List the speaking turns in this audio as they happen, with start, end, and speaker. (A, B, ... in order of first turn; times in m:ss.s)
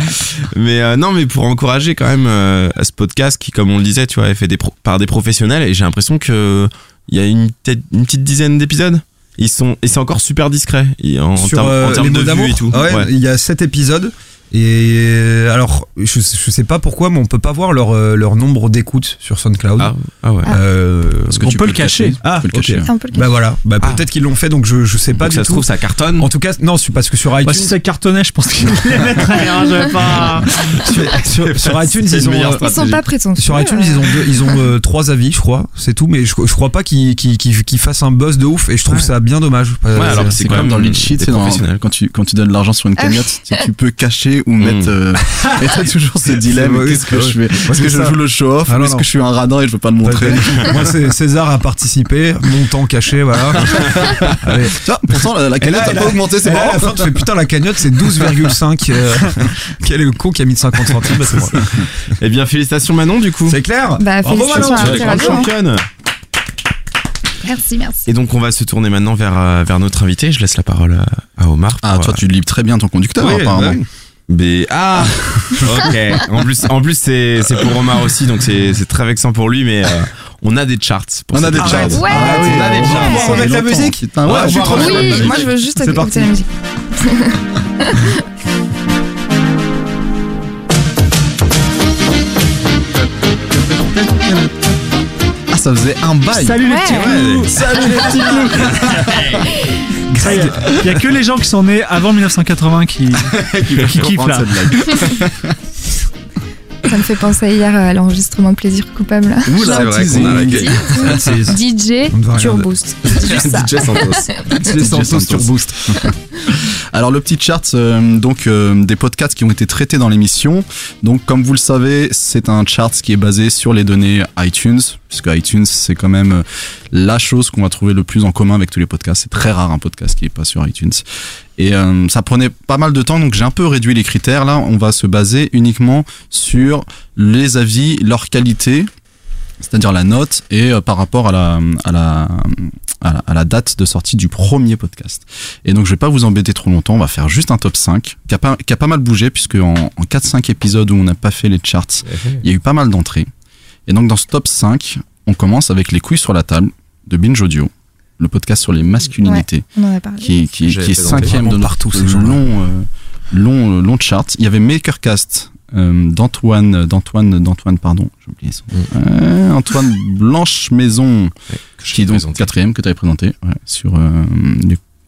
0:00.6-0:13.1 A
0:11.4-0:21.6 B
0:19.8-0:20.5 A
0:21.3-0:23.0 C
0:21.4-0:22.2 D
0:22.2-0:25.7 B
0:22.9-0:23.4 E
0:25.1-0:26.3 A
0:26.2-0:27.8 B
0:27.4-0:30.9 D
0:30.9-0:32.6 B
0:31.1-0:33.0 A
0:32.6-0:34.6 E
0:33.4-0:40.7 B
0:40.0-0:41.8 A
0:40.0-0:50.9 C
0:43.0-0:43.6 E
0:44.6-0:44.9 A
0:45.4-0:45.8 B
0:46.4-0:48.2 B
0:48.7-0:49.0 B
0:50.0-1:01.6 B
0:55.1-0:57.2 C
1:01.1-1:03.6 A
1:03.5-1:05.4 B
1:04.0-1:05.5 E
1:04.5-1:05.9 A
1:04.6-1:05.2 C
1:07.4-1:08.0 E
1:08.1-1:12.2 A
1:11.8-1:13.8 C
1:13.2-1:13.8 B
1:14.3-1:22.1 A
1:21.3-1:25.5 C
1:21.6-1:26.3 B
1:22.0-1:23.5 E
1:24.4-1:25.4 A
1:24.6-1:28.1 E
1:35.5-1:38.4 C
1:36.3-1:39.5 D
1:36.6-1:37.2 E
1:36.9-1:37.6 A
1:40.1-1:40.6 B
1:40.2-1:45.0 D
1:43.6-1:45.5 C
1:46.9-1:54.6 E
1:49.5-1:50.9 C
1:49.6-1:51.2 A
1:50.0-1:52.7 B
1:53.1-1:54.4 A
1:54.6-1:56.0 B
1:54.6-2:11.0 C
2:11.6-2:18.9 C
2:19.6-2:33.3 C
2:32.1-2:32.4 A
2:33.9-2:39.7 C
2:39.2-2:40.3 E
2:40.2-2:51.3 C
2:40.7-2:41.3 A
2:41.2-2:42.4 B
2:51.5-2:52.5 A
2:51.9-2:54.8 C